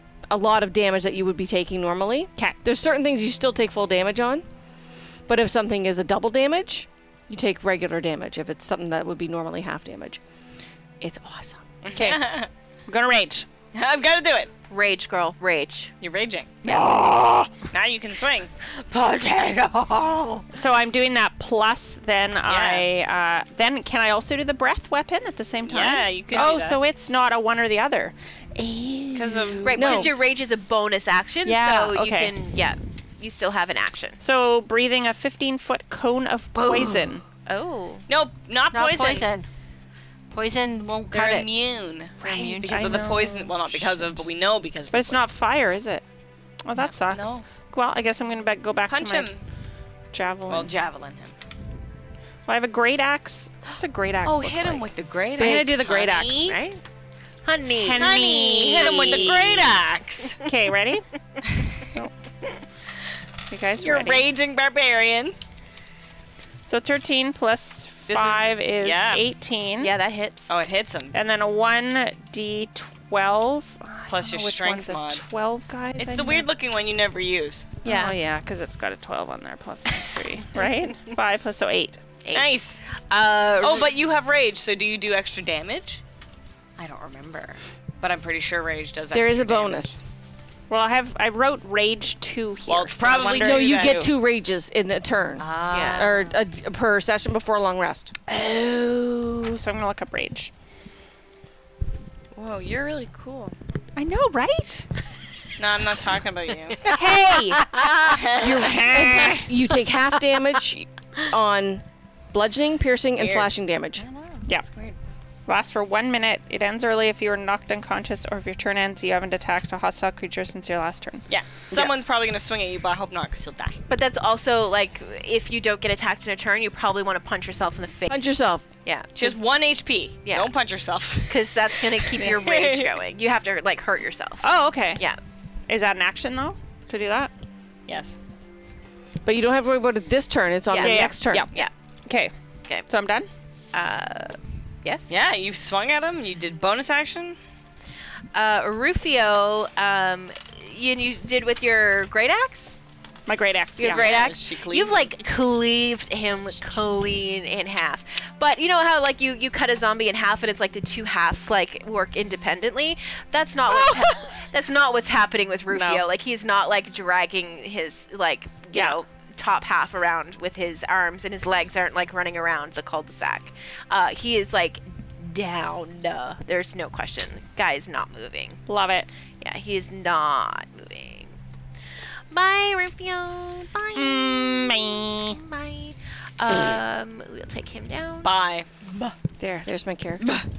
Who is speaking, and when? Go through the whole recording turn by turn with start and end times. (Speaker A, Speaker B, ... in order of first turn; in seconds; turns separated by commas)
Speaker A: 0.3-4.4, Speaker A: 5.3-10.2, Speaker A: 11.0-11.6, Speaker B: 11.8-12.5, Speaker C: 11.9-12.3, Speaker C: 12.9-13.5, Speaker B: 13.7-14.5, Speaker D: 14.7-15.9, Speaker B: 16.0-16.7, Speaker D: 16.6-17.0, Speaker C: 16.6-17.5, Speaker B: 17.7-18.5, Speaker C: 20.5-29.7, Speaker B: 22.4-22.9, Speaker B: 25.6-26.8, Speaker B: 29.1-30.1, Speaker D: 29.6-34.2, Speaker A: 29.7-30.1, Speaker C: 31.4-32.3, Speaker C: 34.2-37.2, Speaker D: 37.5-38.0, Speaker B: 38.1-39.3, Speaker E: 38.7-39.5, Speaker E: 40.3-41.5, Speaker B: 41.1-45.3, Speaker E: 42.2-43.0, Speaker C: 42.2-44.2, Speaker C: 44.9-46.0, Speaker C: 46.6-49.3, Speaker B: 46.8-47.4, Speaker B: 48.9-49.4, Speaker C: 50.1-50.7, Speaker B: 50.5-51.3, Speaker C: 52.5-56.6, Speaker B: 54.2-56.6, Speaker D: 56.4-56.8, Speaker D: 57.4-59.8, Speaker C: 57.8-59.5, Speaker B: 58.0-60.4, Speaker C: 60.4-61.0, Speaker C: 63.5-64.2, Speaker B: 63.8-65.3, Speaker C: 66.7-69.9, Speaker B: 68.1-69.2, Speaker D: 69.8-70.5, Speaker B: 70.5-71.2, Speaker C: 71.1-76.5, Speaker B: 74.1-75.2, Speaker B: 75.9-77.8, Speaker C: 77.8-82.0, Speaker D: 77.8-78.2, Speaker D: 82.2-83.9, Speaker B: 82.3-82.8, Speaker B: 83.6-86.0, Speaker B: 86.8-90.0, Speaker A: 89.1-90.0, Speaker C: 90.7-94.1, Speaker B: 92.7-94.1, Speaker A: 93.3-98.1, Speaker B: 95.4-96.4, Speaker D: 95.7-96.1, Speaker C: 98.3-100.5, Speaker B: 102.3-103.5, Speaker C: 103.9-104.9, Speaker B: 105.6-106.9, Speaker C: 106.8-109.5, Speaker A: 107.2-107.8, Speaker B: 107.9-109.4, Speaker A: 108.3-114.0, Speaker B: 113.2-115.0, Speaker C: 115.5-121.2, Speaker B: 121.3-123.8, Speaker D: 123.9-128.3, Speaker A: 128.1-128.7, Speaker D: 128.8-129.4, Speaker B: 129.1-132.9, Speaker D: 130.2-130.5, Speaker D: 131.3-135.2, Speaker C: 134.4-135.0, Speaker C: 135.7-137.3, Speaker B: 137.9-138.2, Speaker A: 139.2-141.5, Speaker D: 140.7-141.7, Speaker C: 140.8-141.5, Speaker C: 142.1-142.3, Speaker C: 142.9-143.3, Speaker D: 143.7-145.1, Speaker B: 145.1-147.4, Speaker D: 148.3-152.8, Speaker C: 153.3-154.1, Speaker D: 153.8-178.6, Speaker B: 153.8-155.1, Speaker C: 163.7-164.2, Speaker C: 165.7-166.0, Speaker C: 178.7-179.1, Speaker D: 179.4-181.4, Speaker D: 182.3-188.3, Speaker C: 183.9-185.4, Speaker B: 188.2-189.1, Speaker A: 189.4-190.2